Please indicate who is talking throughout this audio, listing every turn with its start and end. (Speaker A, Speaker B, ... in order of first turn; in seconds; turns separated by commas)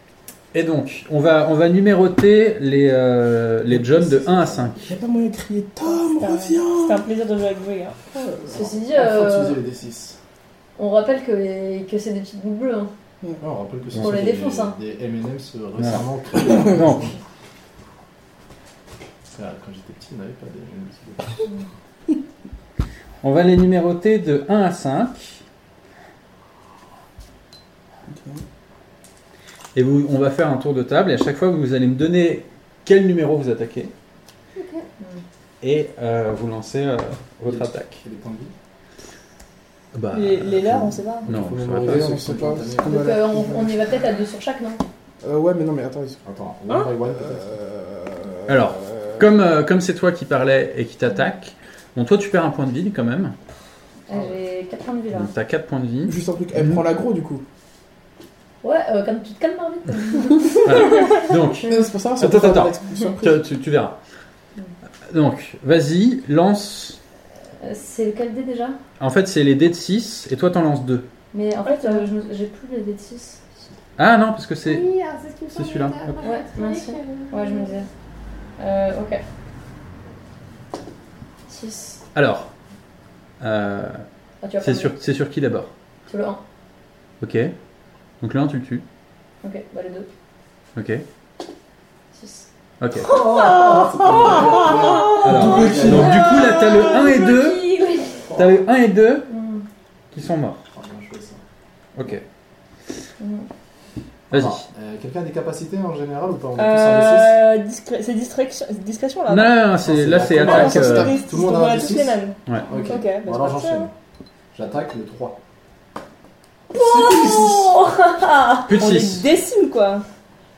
Speaker A: 0.5-5.0, Speaker B: 3.8-7.1, Speaker C: 6.2-8.0, Speaker B: 8.1-8.5, Speaker D: 8.4-10.2, Speaker E: 8.5-9.6, Speaker E: 10.8-12.9, Speaker D: 13.4-17.1, Speaker E: 13.9-14.8, Speaker A: 15.8-17.1, Speaker D: 19.3-21.5, Speaker A: 23.2-25.4, Speaker B: 28.1-28.4, Speaker A: 29.7-33.9, Speaker F: 34.5-34.9, Speaker A: 35.6-38.0, Speaker D: 37.4-38.5, Speaker A: 39.9-42.2, Speaker C: 40.1-41.3, Speaker D: 41.2-43.0, Speaker B: 41.8-43.8, Speaker E: 42.8-44.8, Speaker B: 45.2-46.2, Speaker D: 46.2-47.6, Speaker B: 47.2-49.2, Speaker A: 48.5-53.4, Speaker E: 54.1-55.3, Speaker A: 55.1-56.8, Speaker B: 56.0-57.4, Speaker E: 58.6-61.9, Speaker A: 60.6-64.0, Speaker B: 61.6-63.4, Speaker A: 65.1-67.0, Speaker E: 67.6-68.8, Speaker A: 69.0-71.0, Speaker E: 71.3-73.4, Speaker C: 71.6-72.1, Speaker A: 74.0-74.8, Speaker F: 74.6-77.8, Speaker A: 75.5-76.2, Speaker E: 76.2-77.9, Speaker E: 78.6-79.2, Speaker E: 81.5-82.0, Speaker A: 82.1-82.5, Speaker A: 83.4-84.0, Speaker E: 84.4-84.9, Speaker A: 84.6-85.7, Speaker E: 86.1-86.4, Speaker A: 87.2-87.5, Speaker A: 88.2-88.8, Speaker E: 89.4-90.1, Speaker A: 90.8-91.0, Speaker E: 92.1-92.5, Speaker A: 92.8-93.1, Speaker D: 93.0-96.2, Speaker C: 93.1-95.3, Speaker A: 95.2-97.7, Speaker B: 95.2-96.2, Speaker C: 95.9-97.3, Speaker E: 96.1-98.2, Speaker D: 98.3-98.5, Speaker A: 98.3-99.3, Speaker E: 99.3-99.6, Speaker A: 100.1-100.6, Speaker D: 100.7-101.4, Speaker A: 102.0-102.2, Speaker E: 103.2-103.5, Speaker A: 104.3-104.7, Speaker D: 104.3-107.4, Speaker C: 106.6-109.6, Speaker A: 109.3-111.1, Speaker D: 109.8-113.9, Speaker C: 110.4-113.9, Speaker B: 110.4-111.1, Speaker D: 114.5-115.4, Speaker E: 116.7-118.7, Speaker D: 116.8-117.6, Speaker C: 118.6-120.0, Speaker A: 118.7-119.2